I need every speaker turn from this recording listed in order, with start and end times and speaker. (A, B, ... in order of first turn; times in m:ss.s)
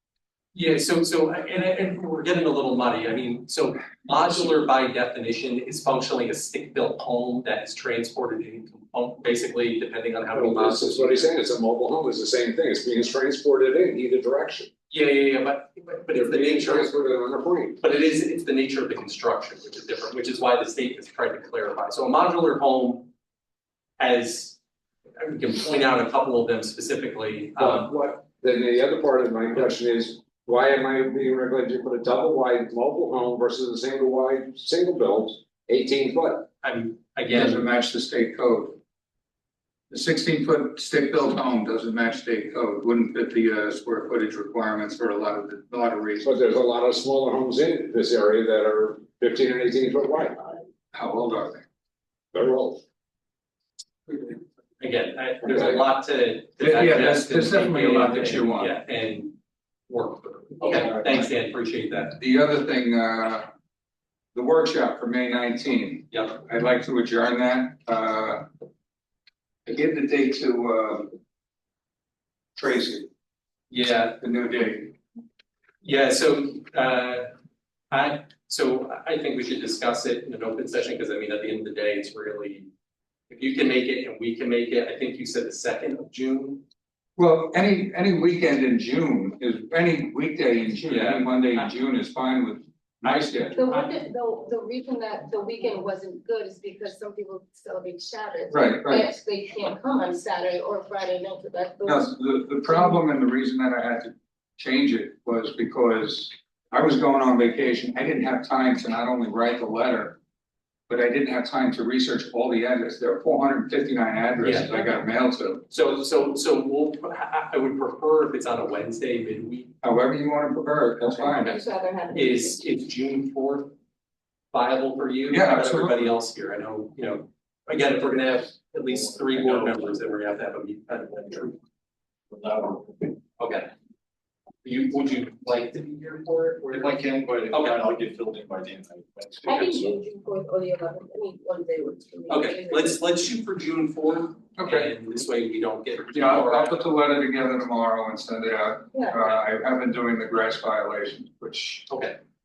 0:00.5-0:11.3 A
0:10.3-0:14.7 B
0:14.9-0:17.0 A
0:16.1-0:17.8 B
0:17.8-0:23.1 A
0:24.0-0:24.6 A
0:25.2-0:27.9 A
0:27.6-0:36.5 B
0:36.6-0:37.7 A
0:37.3-0:38.8 C
0:39.9-0:46.3 C
0:46.2-0:50.6 B
0:50.9-0:51.6 C
0:52.3-0:52.8 B
0:54.1-0:59.4 A
0:55.5-0:55.8 B
0:56.6-0:58.7 C
0:59.9-1:02.2 A
1:02.2-1:03.5 C
1:04.3-1:08.4 C
1:06.1-1:06.4 A
1:09.6-1:11.1 C
1:12.6-1:13.1 C
1:13.7-1:14.2 A
1:14.2-1:14.9 C
1:15.8-1:17.3 A
1:17.9-1:22.7 A
1:23.3-1:26.6 A
1:27.2-1:33.6 C
1:30.9-1:31.7 A
1:33.5-1:42.9 D
1:38.5-1:39.0 C
1:41.8-1:50.2 C
1:50.9-1:55.6 C
1:54.4-1:54.7 A
1:55.7-1:59.7 A
1:59.8-2:01.6 C
2:01.2-2:02.6 D
2:02.1-2:03.7 A
2:04.5-2:11.6 A
2:05.3-2:06.0 C
2:09.3-2:09.8 E
2:12.3-2:13.2 E
2:13.4-2:13.7 A
2:14.6-2:17.8 A
2:16.7-2:20.0 E
2:19.4-2:23.0 D
2:22.3-2:26.9 A
2:24.6-2:24.9 C
2:26.1-2:31.9 C
2:28.9-2:29.2 D
2:31.9-2:32.2 A